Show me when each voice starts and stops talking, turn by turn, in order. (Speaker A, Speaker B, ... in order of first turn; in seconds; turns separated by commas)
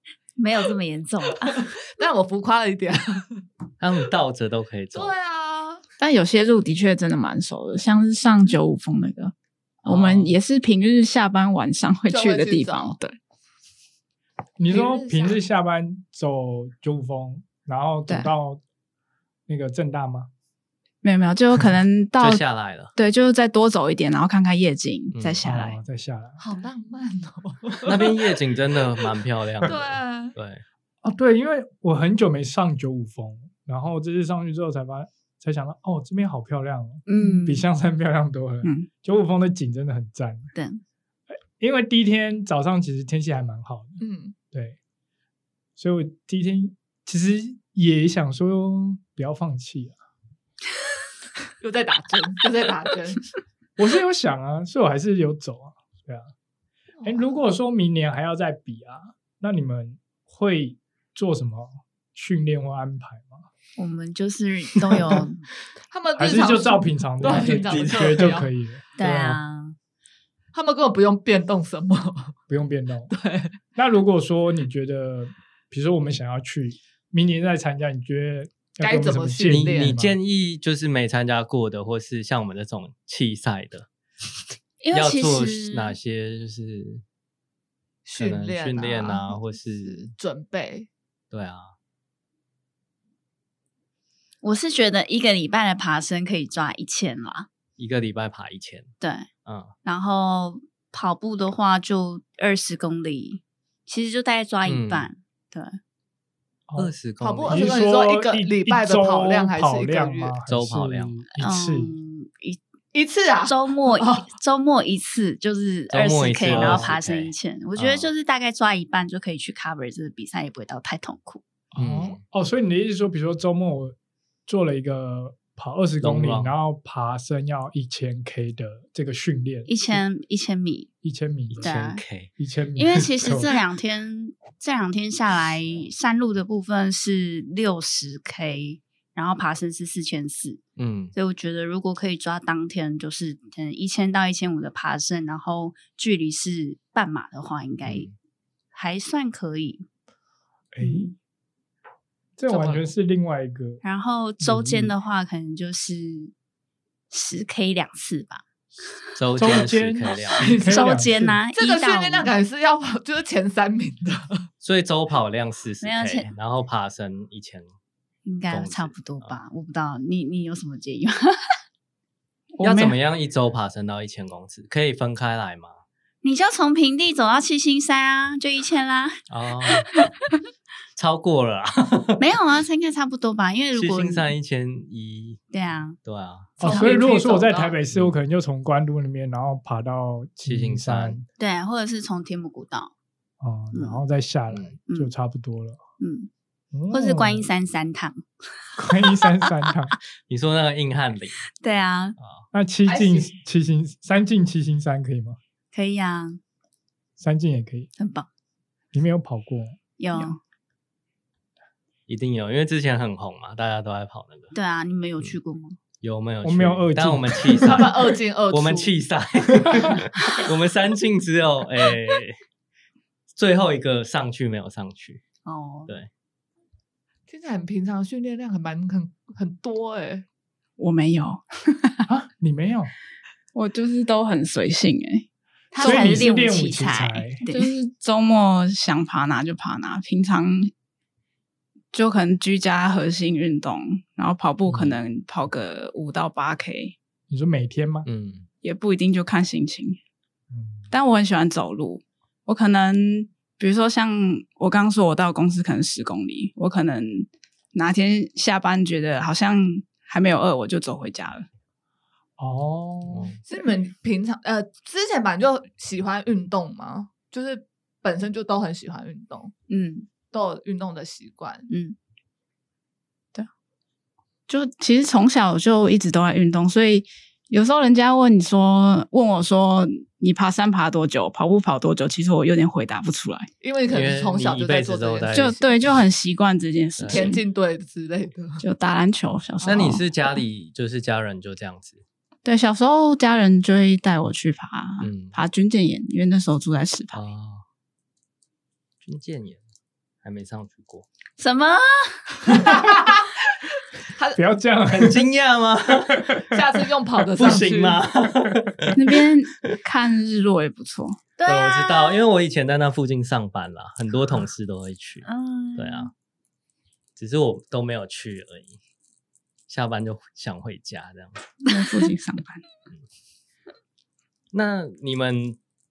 Speaker A: 0.4-1.7, Speaker B: 1.6-3.4, Speaker C: 3.8-5.1, Speaker B: 5.0-5.8, Speaker D: 6.0-9.3, Speaker C: 9.8-10.3, Speaker D: 9.9-13.2, Speaker B: 12.1-13.0, Speaker E: 14.6-18.6, Speaker B: 14.7-15.4, Speaker E: 19.5-20.3, Speaker D: 21.0-22.4, Speaker C: 22.2-22.9, Speaker D: 23.0-25.8, Speaker C: 25.1-25.4, Speaker E: 25.4-26.4, Speaker B: 26.4-28.4, Speaker C: 27.9-30.6, Speaker B: 29.6-30.4, Speaker E: 31.0-40.5, Speaker A: 37.1-37.6, Speaker A: 40.5-40.8, Speaker E: 41.6-44.0, Speaker B: 44.0-44.4, Speaker E: 44.5-44.8, Speaker E: 45.8-50.0, Speaker B: 51.6-53.2, Speaker E: 53.8-56.3, Speaker B: 57.0-57.3, Speaker E: 57.0-63.5, Speaker A: 63.8-65.4, Speaker B: 65.9-68.5, Speaker E: 66.2-69.4, Speaker C: 67.2-68.4, Speaker A: 69.0-69.8, Speaker B: 70.5-72.4, Speaker E: 72.5-73.1, Speaker B: 73.1-73.5, Speaker E: 73.8-80.2, Speaker B: 78.8-79.9, Speaker C: 79.5-83.9, Speaker A: 84.8-86.0, Speaker C: 84.9-87.0, Speaker B: 88.0-90.9, Speaker C: 88.2-90.1, Speaker C: 91.3-91.7, Speaker A: 94.4-97.5, Speaker C: 97.8-98.9, Speaker A: 99.0-99.3, Speaker C: 99.5-99.7, Speaker A: 99.8-105.8, Speaker C: 104.7-105.1, Speaker E: 106.7-106.9, Speaker C: 106.8-107.8, Speaker B: 107.2-110.4, Speaker E: 107.5-111.9, Speaker C: 110.5-111.2, Speaker A: 111.4-112.6, Speaker B: 112.9-114.3, Speaker A: 113.5-121.4, Speaker C: 115.9-118.1, Speaker E: 116.5-116.9, Speaker E: 121.7-124.0, Speaker C: 121.8-122.2, Speaker E: 124.5-130.0, Speaker C: 126.0-126.5, Speaker A: 129.7-130.9, Speaker E: 131.0-131.7, Speaker C: 131.5-132.3, Speaker A: 131.6-132.0, Speaker E: 132.4-133.5, Speaker A: 132.8-140.6, Speaker C: 140.8-141.2, Speaker A: 141.1-148.1, Speaker C: 147.8-148.1, Speaker A: 148.7-149.9, Speaker E: 150.7-151.2, Speaker A: 150.8-151.1, Speaker E: 152.4-153.8, Speaker B: 152.5-152.8, Speaker A: 153.8-156.3, Speaker E: 154.4-154.9, Speaker A: 157.1-158.4, Speaker C: 159.2-160.6, Speaker E: 159.4-161.4, Speaker B: 160.4-160.8, Speaker A: 160.6-162.3, Speaker B: 161.5-164.5, Speaker C: 164.6-167.7, Speaker A: 165.8-166.3, Speaker A: 168.2-171.6, Speaker C: 168.5-169.4, Speaker D: 172.5-172.9, Speaker C: 172.6-175.8, Speaker A: 176.2-179.2, Speaker C: 179.3-179.9, Speaker C: 181.0-182.2, Speaker A: 182.2-184.3, Speaker C: 183.7-185.4, Speaker A: 185.5-186.0, Speaker C: 186.0-186.6, Speaker B: 186.6-187.7, Speaker E: 186.6-191.3, Speaker A: 186.6-187.0, Speaker C: 190.5-191.2, Speaker A: 191.4-192.9, Speaker E: 193.4-195.8, Speaker A: 193.7-194.0, Speaker C: 194.5-194.8, Speaker A: 196.0-196.3, Speaker E: 196.7-197.5, Speaker A: 196.9-198.2, Speaker E: 198.8-199.9, Speaker A: 199.0-199.5, Speaker C: 200.3-201.4, Speaker A: 201.5-202.2, Speaker C: 202.2-202.4, Speaker E: 202.5-205.4, Speaker B: 202.9-203.3, Speaker A: 205.7-206.4, Speaker E: 207.2-207.9, Speaker A: 208.0-208.3, Speaker E: 208.9-209.8, Speaker A: 210.0-210.4, Speaker C: 212.1-214.5, Speaker A: 214.5-215.8, Speaker C: 216.0-222.4, Speaker E: 216.4-218.0, Speaker B: 217.6-218.9, Speaker E: 219.6-219.9, Speaker C: 223.4-225.2, Speaker A: 225.5-225.9, Speaker B: 227.3-230.2, Speaker D: 230.8-232.0, Speaker E: 232.1-232.9, Speaker D: 233.6-235.3, Speaker A: 235.7-237.7, Speaker D: 235.8-236.3, Speaker E: 235.8-237.4, Speaker D: 237.5-240.7, Speaker D: 241.9-246.9, Speaker E: 247.3-248.1, Speaker C: 248.1-248.5, Speaker D: 248.6-250.0, Speaker E: 250.5-250.9, Speaker D: 250.9-261.5, Speaker E: 262.4-263.3, Speaker C: 263.1-263.4, Speaker B: 263.5-269.5, Speaker A: 269.7-270.1, Speaker B: 270.3-271.7, Speaker A: 271.7-272.0, Speaker D: 274.5-283.5, Speaker B: 283.6-285.7, Speaker C: 283.9-285.6, Speaker D: 285.3-287.4, Speaker C: 287.0-287.3, Speaker B: 287.1-288.6, Speaker D: 288.6-290.1, Speaker B: 289.6-290.0, Speaker C: 289.6-292.0, Speaker D: 292.4-297.2, Speaker C: 295.0-295.4, Speaker C: 297.1-297.6, Speaker C: 299.0-299.6, Speaker C: 300.2-301.1, Speaker A: 301.4-302.3, Speaker B: 302.5-303.3, Speaker B: 304.1-304.4, Speaker E: 304.4-305.2, Speaker C: 304.9-306.4, Speaker E: 306.2-306.6, Speaker B: 306.5-308.0, Speaker C: 307.4-309.7, Speaker D: 308.9-311.2, Speaker A: 311.4-312.2, Speaker C: 311.5-315.2, Speaker A: 315.2-316.1, Speaker C: 315.8-316.1, Speaker C: 317.2-318.8, Speaker C: 319.7-321.5, Speaker D: 321.6-322.6, Speaker C: 324.5-325.6